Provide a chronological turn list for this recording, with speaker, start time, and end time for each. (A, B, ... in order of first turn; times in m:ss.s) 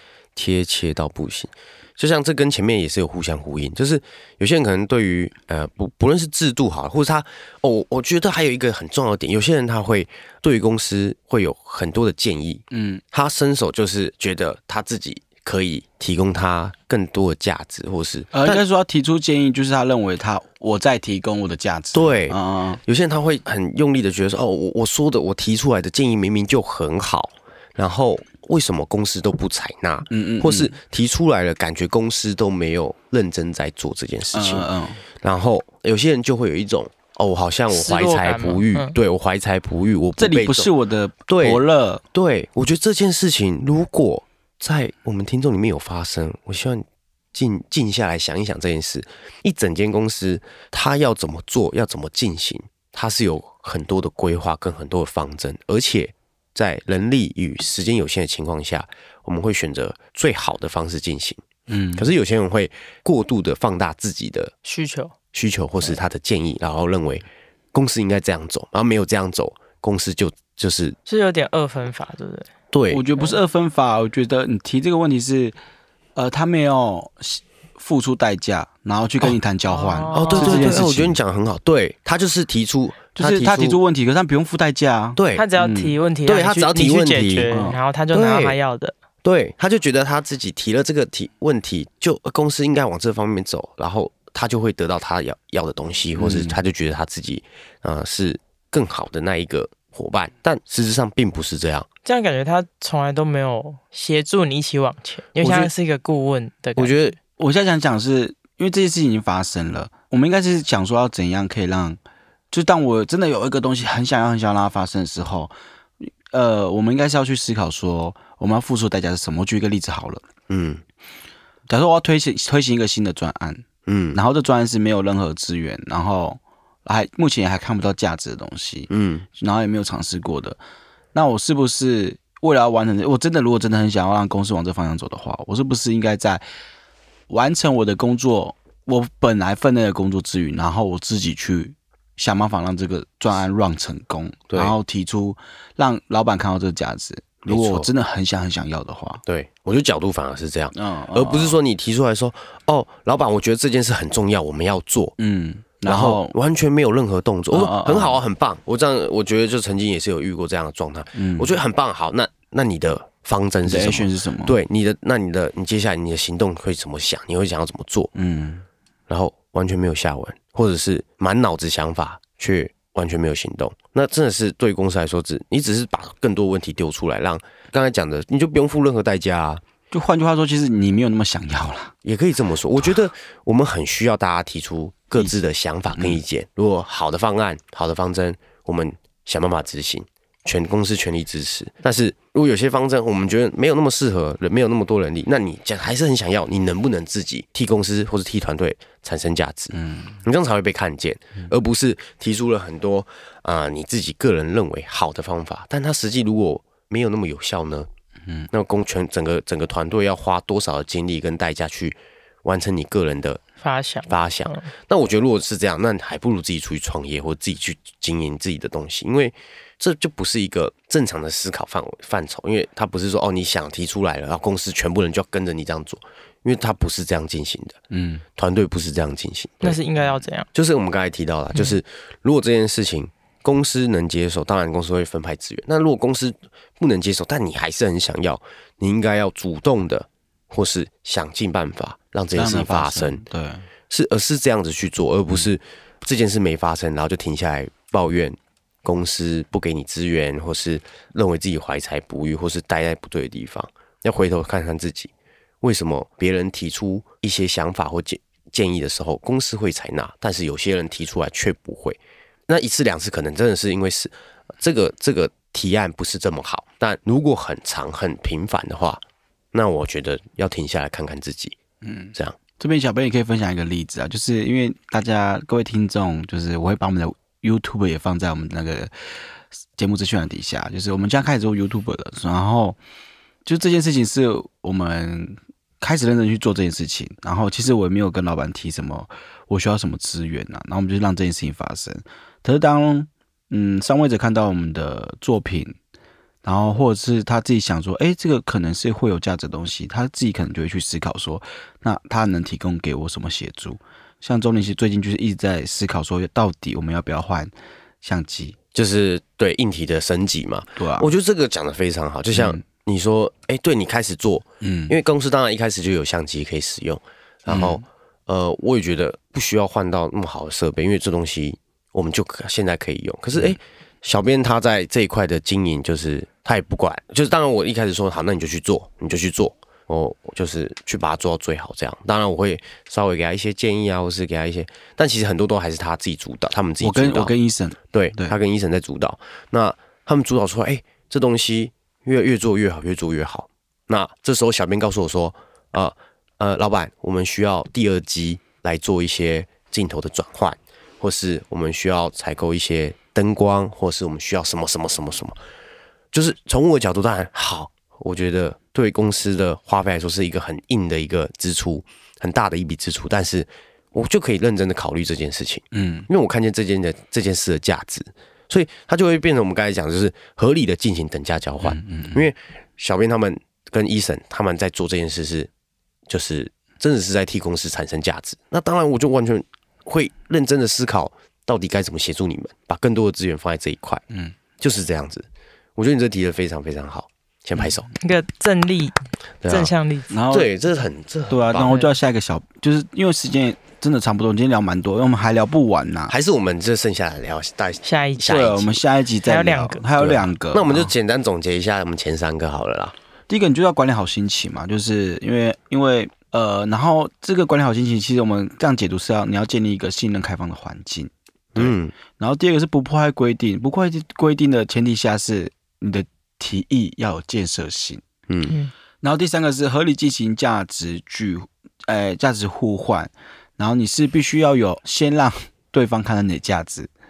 0:00.4-0:18.6 A
0:12.7-0:13.0 B
0:18.3-0:22.8 B
0:21.9-0:34.7 A
0:30.1-0:30.8 B
0:34.3-0:35.0 B
0:35.2-0:40.7 A
0:37.7-0:39.0 C
0:40.2-0:42.0 B
0:41.3-1:01.4 A
1:01.7-1:02.1 B
1:02.0-1:04.5 A
1:04.6-1:05.1 C
1:05.3-1:11.0 A
1:11.1-1:12.5 C
1:12.7-1:13.0 A
1:12.9-1:15.6 B
1:16.2-1:21.2 B
1:19.7-1:20.8 C
1:20.1-1:23.8 A
1:23.2-1:26.0 B
1:25.2-1:25.5 A
1:25.3-1:29.0 C
1:26.3-1:28.6 A
1:27.5-1:27.8 B
1:29.2-1:41.9 A
1:36.2-1:36.6 B
1:42.0-1:47.0 C
1:45.4-1:45.7 A
1:46.8-1:47.2 A
1:47.4-1:52.0 B
1:52.5-2:00.3 B
2:00.5-2:00.8 A
2:01.7-2:10.6 B
2:03.9-2:04.2 A
2:08.9-2:09.3 A
2:11.1-2:16.4 B
2:17.3-2:29.2 B
2:24.5-2:24.8 A
2:27.5-2:27.9 A
2:29.3-2:35.2 A
2:30.7-2:31.6 B
2:35.2-2:36.4 B
2:35.9-2:48.1 A
2:37.5-2:38.2 B
2:41.2-2:41.6 B
2:43.6-2:44.6 B
2:48.2-2:48.6 B
2:49.1-2:59.6 A
2:59.9-3:01.9 B
3:02.0-3:27.9 A
3:06.0-3:06.2 B
3:19.7-3:20.2 B
3:28.5-3:33.4 A
3:33.6-3:34.7 C
3:34.1-3:47.8 A
3:47.9-3:48.2 B
3:48.4-3:49.8 A
3:49.6-3:50.5 C
3:50.5-4:03.2 A
4:02.3-4:03.7 B
4:03.9-4:31.6 A
4:31.8-4:38.9 B
4:39.5-4:42.8 B
4:43.4-4:55.8 B
4:56.4-5:07.5 B
5:08.0-5:08.6 B
5:08.7-5:37.4 A
5:10.8-5:11.1 B
5:12.3-5:12.6 B
5:14.6-5:15.0 B
5:17.5-5:17.8 B
5:36.8-5:38.4 B
5:37.9-5:55.4 A
5:56.1-6:15.5 A
6:05.7-6:06.1 B
6:11.6-6:12.3 B
6:16.1-6:24.0 A
6:24.1-6:24.4 B
6:24.6-6:25.2 A
6:25.8-6:27.9 A
6:28.0-6:30.1 C
6:29.4-6:29.7 A
6:30.1-6:30.5 B
6:30.3-6:31.8 A
6:31.3-6:36.2 B
6:31.6-6:31.9 C
6:36.1-6:38.8 A
6:37.8-6:38.4 C
6:38.2-6:40.9 B
6:39.3-6:39.8 C
6:40.0-6:43.0 A
6:43.3-6:58.1 B
6:51.6-6:51.9 A
6:58.3-6:58.6 A
6:59.0-7:06.9 B